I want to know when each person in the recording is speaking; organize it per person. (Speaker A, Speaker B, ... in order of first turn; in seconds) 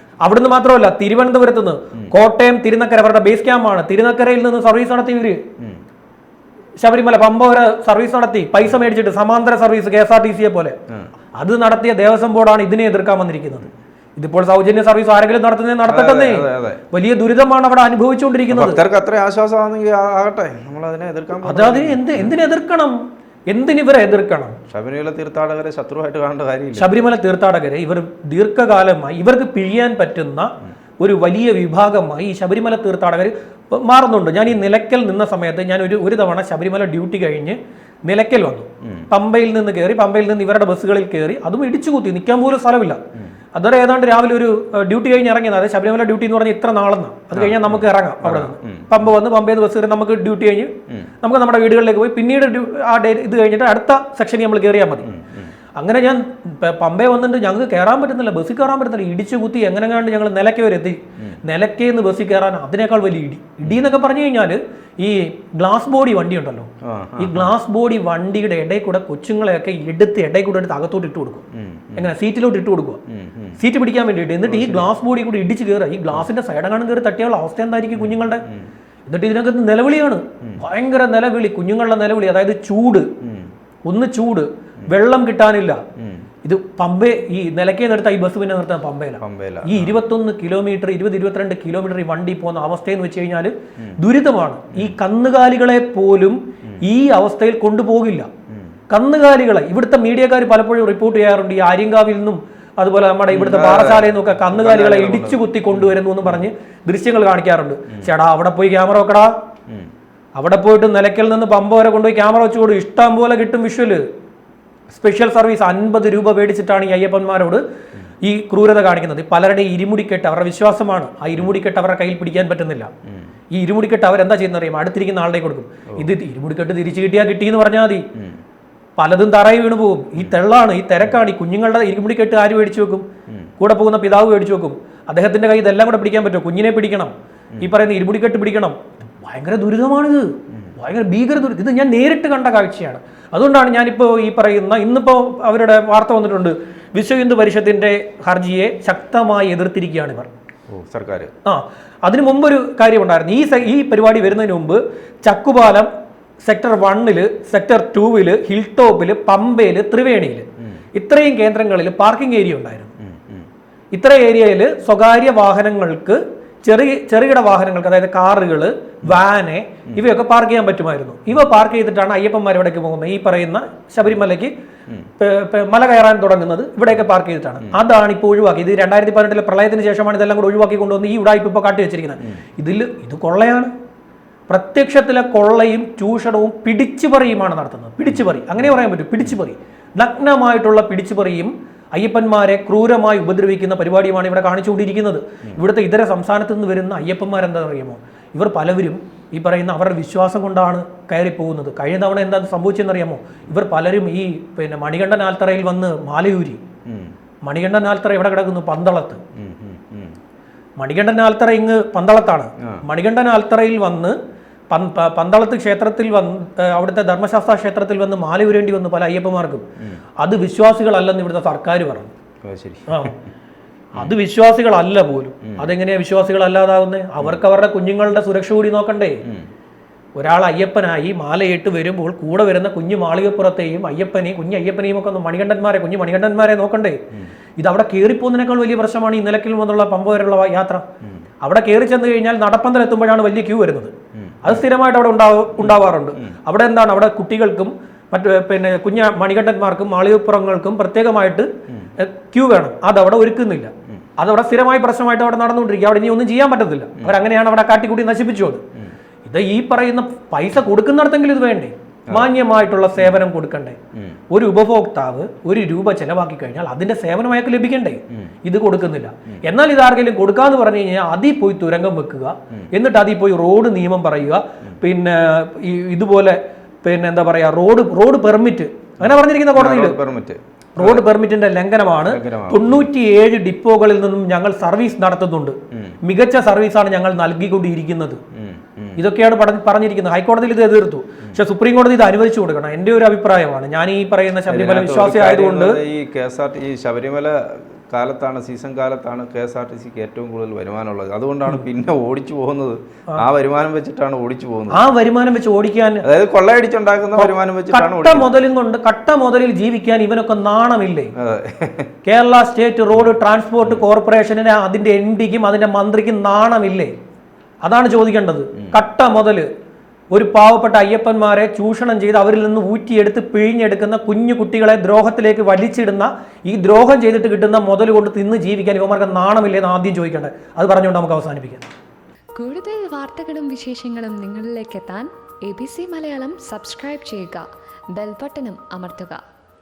Speaker A: 0.2-5.4, 6.8-10.8, 11.3-18.8, 21.4-23.0, 23.5-24.6, 26.7-43.0, 43.5-55.1, 55.8-71.4, 72.0-73.0, 73.6-78.4, 79.1-83.1, 83.8-85.8, 86.4-98.3, 98.9-109.3, 110.3-114.0, 114.9-117.6, 118.2-122.9, 123.5-128.1, 129.0-133.0, 133.6-150.3, 151.4-155.9, 156.4-162.9, 163.9-174.5, 175.2-183.7, 184.5-206.6, 207.4-209.2, 210.8-214.2, 214.7-219.6, 220.2-222.1, 222.9-223.1, 223.9-229.2, 230.2-237.0, 237.6-240.8, 241.4-258.6, 259.2-263.8, 264.3-280.0, 280.8-288.2, 289.0-295.8, 304.7-306.0, 307.1-311.1, 312.0-316.9, 317.6-319.4, 320.1-331.7
Speaker B: 15.8-16.8, 18.5-22.3, 24.7-26.9, 38.8-39.1, 47.3-49.0, 55.0-55.5, 66.8-67.5, 71.5-72.1, 73.1-73.6, 74.4-74.9, 78.0-78.7, 83.2-83.5, 86.0-86.3, 89.2-90.0, 103.3-106.4, 128.2-128.4, 150.7-151.3, 163.0-163.5, 206.9-207.1, 209.4-210.2, 222.4-223.1, 225.4-225.7, 244.2-244.6, 245.6-246.3, 263.9-264.2, 279.0-281.1, 282.1-282.9, 285.7-286.0, 288.3-289.0, 294.5-304.8, 306.0-308.3, 311.2-311.9
Speaker C: 332.4-339.2